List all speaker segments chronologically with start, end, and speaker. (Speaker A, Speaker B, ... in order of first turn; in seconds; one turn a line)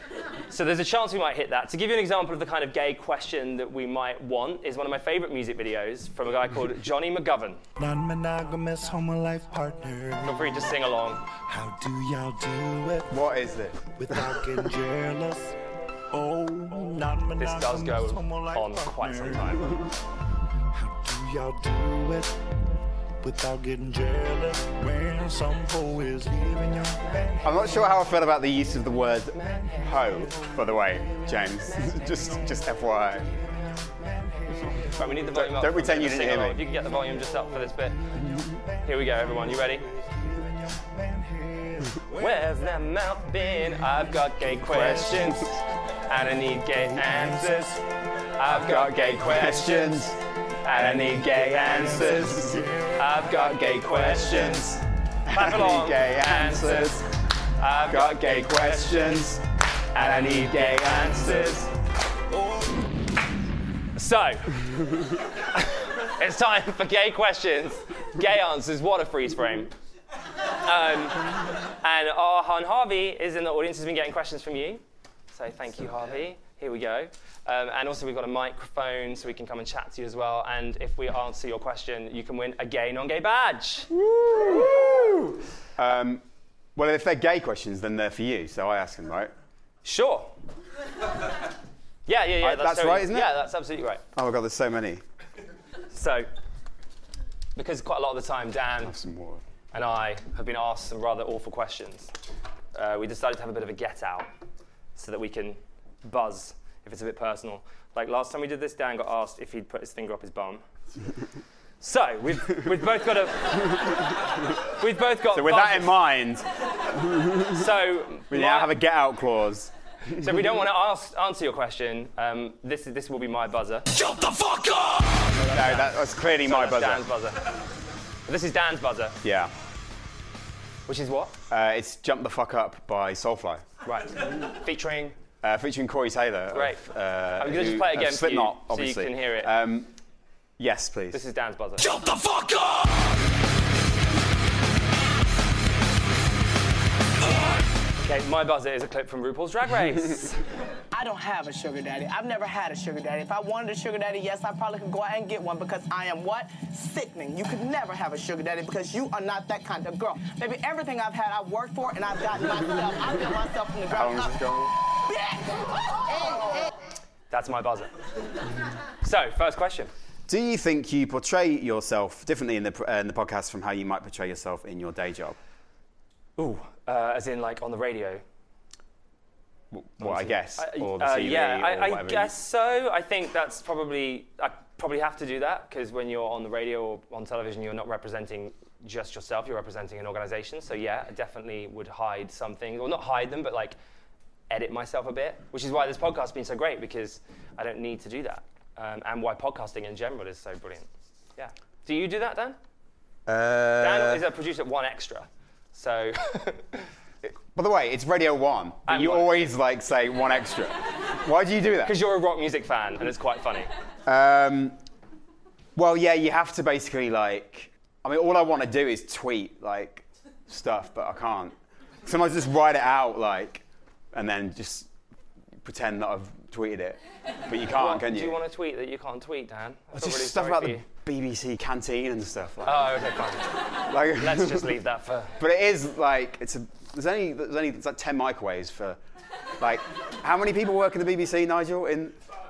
Speaker A: 0.5-7.6
Speaker B: 7.8-10.7
Speaker A: 10.2-11.2
Speaker B: 11.4-13.2
Speaker C: 13.1-14.2
Speaker B: 14.0-15.6
Speaker B: 16.1-19.9
Speaker A: 17.4-19.8
Speaker B: 20.7-22.4
Speaker B: 23.2-27.7
Speaker C: 27.4-33.3
Speaker A: 29.3-29.9
Speaker B: 30.1-32.6
Speaker B: 33.2-35.1
Speaker A: 35.0-38.0
Speaker C: 35.3-36.6
Speaker B: 38.0-42.3
Speaker A: 38.8-39.9
Speaker A: 42.2-45.5
Speaker B: 44.6-45.4
Speaker A: 46.1-47.8
Speaker A: 48.4-50.0
Speaker C: 48.5-52.6
Speaker A: 50.6-57.0
Speaker B: 52.0-53.0
Speaker C: 53.4-57.1
Speaker A: 57.6-59.3
Speaker C: 57.9-59.4
Speaker C: 60.0-61.7
Speaker A: 60.0-61.7
Speaker A: 64.0-64.6
Speaker A: 65.5-69.7
Speaker A: 70.6-71.2
Speaker A: 71.8-83.9
Speaker C: 83.9-86.2
Speaker C: 86.8-89.3
Speaker A: 89.8-90.3
Speaker A: 92.1-94.0
Speaker C: 92.4-93.3
Speaker C: 94.1-95.0
Speaker A: 95.9-96.3
Speaker A: 97.6-99.0
Speaker C: 98.8-99.4
Speaker A: 99.7-102.1
Speaker A: 102.7-104.3
Speaker A: 105.0-110.6
Speaker A: 111.8-116.0
Speaker C: 115.3-116.5
Speaker A: 117.4-118.8
Speaker C: 118.3-120.4
Speaker A: 120.1-127.5
Speaker C: 125.4-127.1
Speaker A: 128.3-129.2
Speaker C: 129.2-129.5
Speaker A: 130.9-131.3
Speaker C: 131.5-133.7
Speaker A: 133.8-135.2
Speaker C: 135.4-139.9
Speaker A: 136.5-136.9
Speaker A: 137.4-139.5
Speaker C: 140.6-141.2
Speaker A: 141.1-142.7
Speaker A: 148.0-150.4
Speaker D: 150.9-164.4
Speaker C: 163.9-164.8
Speaker D: 166.1-166.4
Speaker A: 167.3-167.9
Speaker A: 169.0-169.9
Speaker C: 170.3-175.4
Speaker A: 176.4-178.2
Speaker C: 179.7-182.3
Speaker A: 180.0-193.8
Speaker A: 194.5-202.6
Speaker C: 203.3-204.2
Speaker A: 203.8-206.8
Speaker C: 207.2-212.0
Speaker A: 208.9-209.5
Speaker A: 211.8-213.7
Speaker C: 214.1-214.8
Speaker C: 215.8-224.9
Speaker C: 225.6-228.4
Speaker A: 227.7-230.8
Speaker C: 229.9-233.0
Speaker A: 232.7-233.5
Speaker C: 233.9-234.8
Speaker A: 234.1-235.4
Speaker C: 235.4-239.0
Speaker C: 239.6-242.2